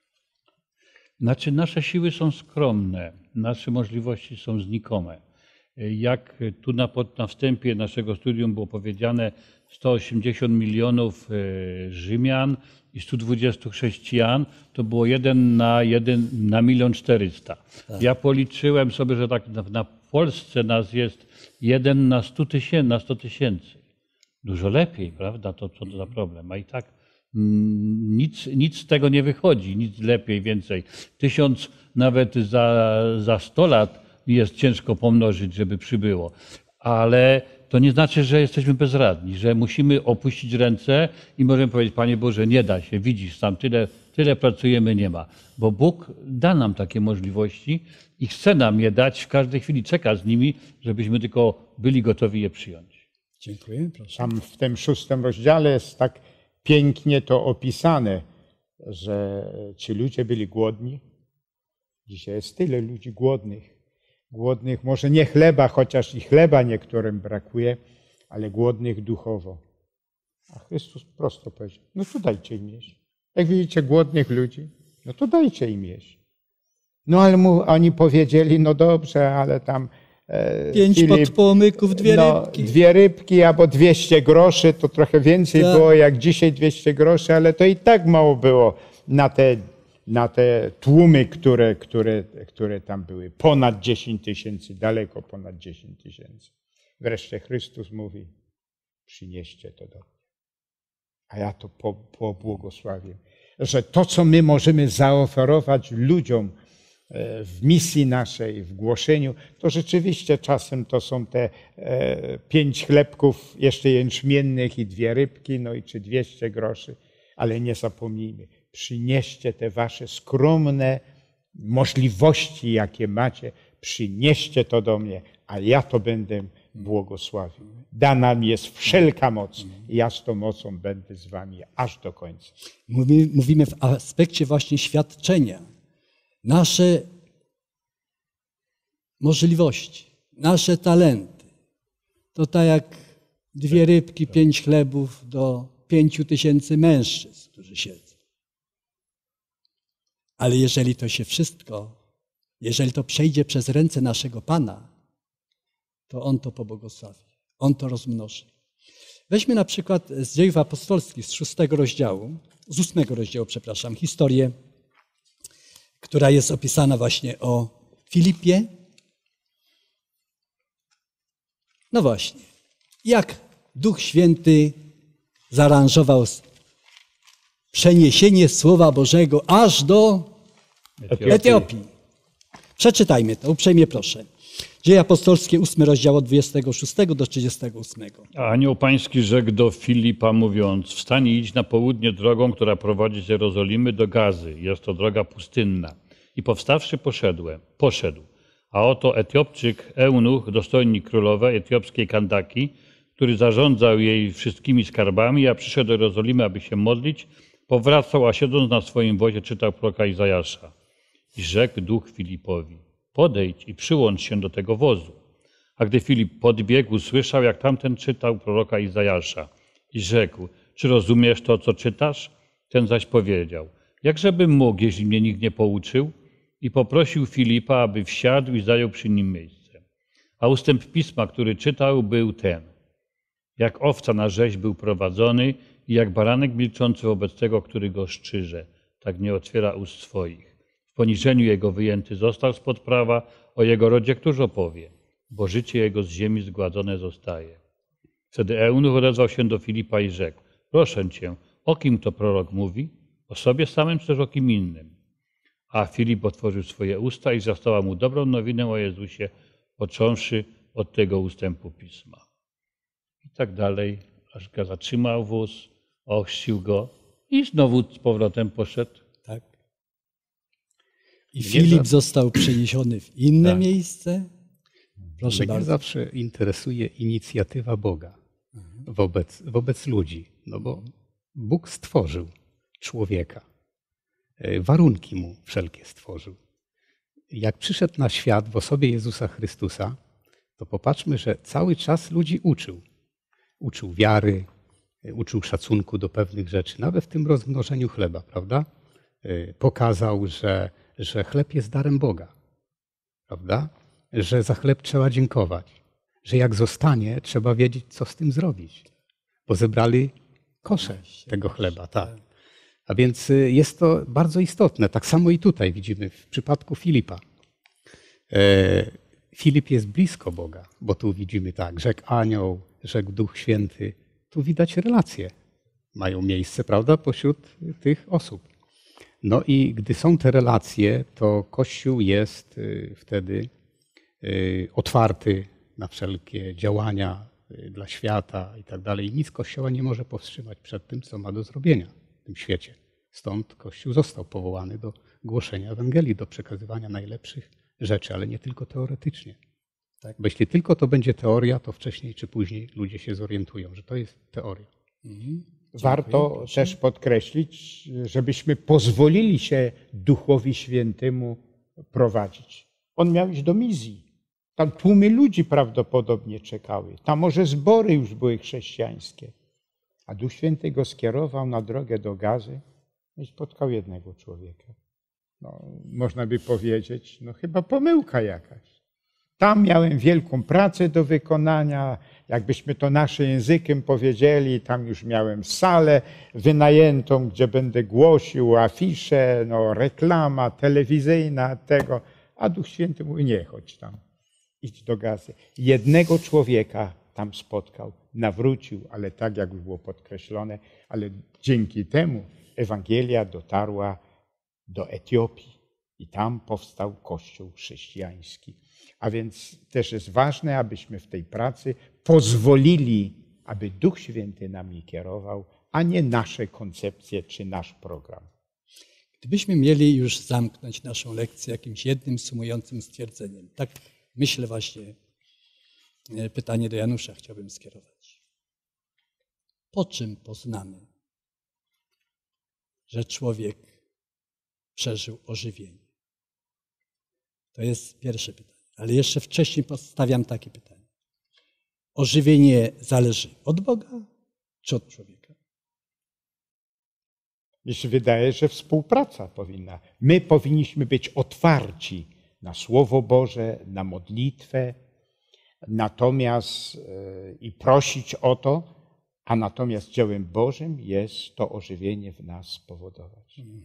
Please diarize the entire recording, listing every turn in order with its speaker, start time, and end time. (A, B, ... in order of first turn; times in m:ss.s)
0:01.2-0:05.2 A
0:05.8-0:23.8 A
0:24.4-0:53.0 A
0:53.4-0:54.3 B
0:54.2-0:58.2 C
0:58.8-1:01.0 C
1:02.1-1:03.7 C
1:04.3-1:07.8 C
1:08.3-1:09.6 C
1:10.5-1:16.1 C
1:17.0-1:21.4 C
1:20.7-1:22.7 B
1:21.9-1:38.3 C
1:25.5-1:25.8 B
1:39.1-1:40.0 C
1:41.3-1:46.5 C
1:47.1-2:01.0 C
2:01.6-2:12.5 C
2:12.9-2:15.6 B
2:16.4-2:17.1 B
2:19.2-2:21.4 B
2:22.3-2:28.1 B
2:30.4-2:31.9 B
2:32.6-2:34.9 B
2:36.1-2:38.4 B
2:39.3-2:44.5 B
2:46.0-2:48.7 B
2:51.9-2:52.5 B
2:53.0-2:54.8 B
2:55.5-2:56.4 B
2:57.7-3:00.3 B
3:01.0-3:01.6 A
3:01.1-3:01.6 C
3:01.3-3:01.9 B
3:02.8-3:04.3 B
3:04.8-3:08.3 B
3:08.3-3:30.7 A
3:31.3-3:35.2 A
3:35.8-3:49.8 A
3:50.4-3:52.7 A
3:53.6-4:07.6 A
4:08.3-4:14.9 A
4:15.7-4:22.2 A
4:23.2-4:29.0 A
4:31.3-4:34.3 B
4:31.4-4:31.9 D
4:35.2-4:35.7 B
4:35.2-4:38.2 D
4:38.8-4:40.8 D
4:41.3-4:43.4 D
4:44.4-4:46.4 D
4:47.3-4:50.0 D
4:50.6-4:52.8 D
4:53.6-4:54.5 D
4:55.0-4:58.7 D
4:59.2-5:02.3 D
5:03.3-5:08.8 D
5:09.5-5:12.1 D
5:10.8-5:12.2 B
5:12.9-5:17.2 D
5:18.3-5:25.3 D
5:25.9-5:28.4 D
5:29.2-5:33.5 D
5:34.2-5:49.4 D
5:50.2-5:54.7 D
5:55.0-5:56.7 B
5:55.8-6:01.4 C
6:01.9-6:04.0 C
6:04.6-6:09.3 C
6:10.1-6:12.6 C
6:13.2-6:14.7 C
6:15.4-6:18.6 C
6:19.4-6:34.0 C
6:34.6-6:44.0 C
6:44.7-6:58.3 C
6:59.2-7:05.0 B
7:06.1-7:08.2 B
7:09.7-7:10.8 B
7:12.9-7:13.6 B
7:14.8-7:15.8 B
7:17.5-7:20.8 B
7:22.0-7:24.0 B
7:24.6-7:25.3 B
7:27.6-7:34.8 C
7:35.7-7:38.7 C
7:39.2-7:43.4 C